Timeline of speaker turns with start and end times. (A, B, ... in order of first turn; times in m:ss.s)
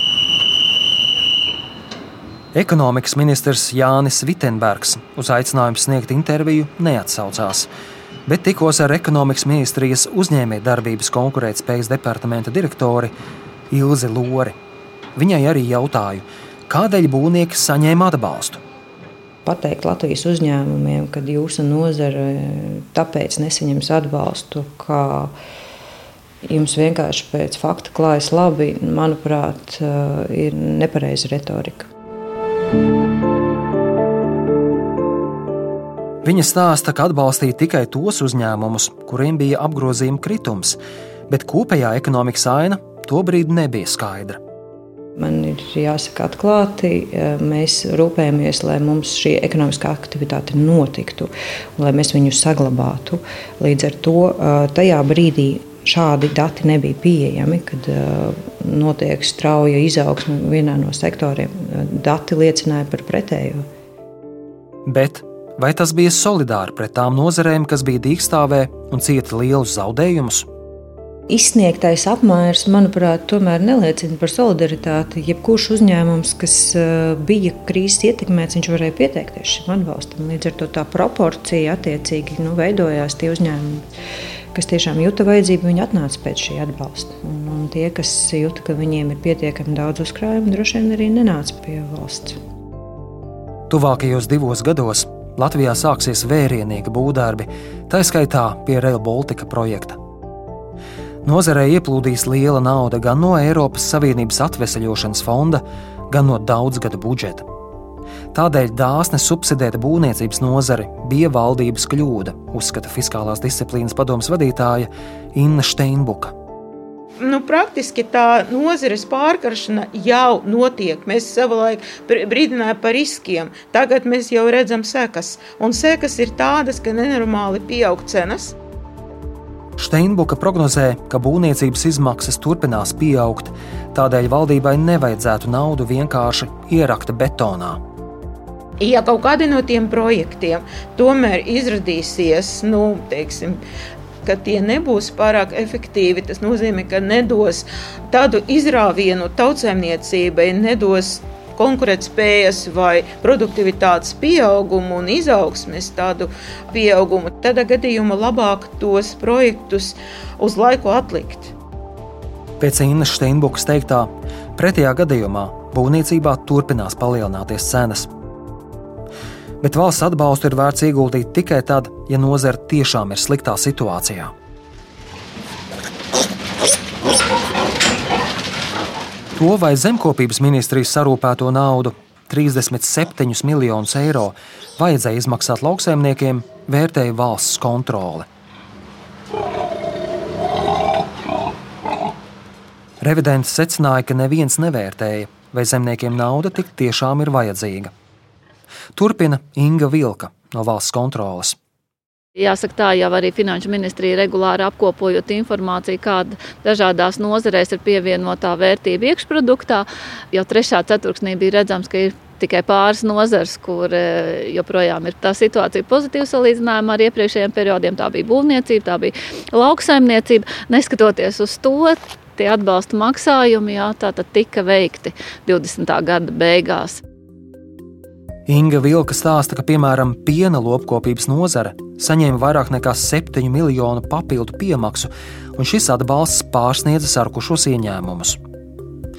0:02.5-0:07.7 A
0:08.2-0:13.1 A
0:13.7-0:14.5 A
0:15.2-0:18.6 A
0:19.4-0:25.3 B
0:26.4-0:31.9 B
0:36.2-0:40.8 A
0:41.3-0:44.4 A
0:45.2-1:03.7 B
1:04.8-1:10.4 A
1:11.3-1:23.8 B
1:24.5-1:32.4 B
1:33.7-1:40.0 A
1:41.2-1:47.4 A
1:48.3-1:56.3 A
1:57.2-2:08.5 C
2:09.8-2:17.8 A
2:18.8-2:23.6 C
2:24.2-2:41.5 C
2:42.6-2:48.1 A
2:49.6-2:54.3 A
2:59.4-3:08.3 A
3:13.0-3:17.9 A
3:19.0-3:21.6 A
3:22.4-3:47.0 D
3:48.5-3:58.4 A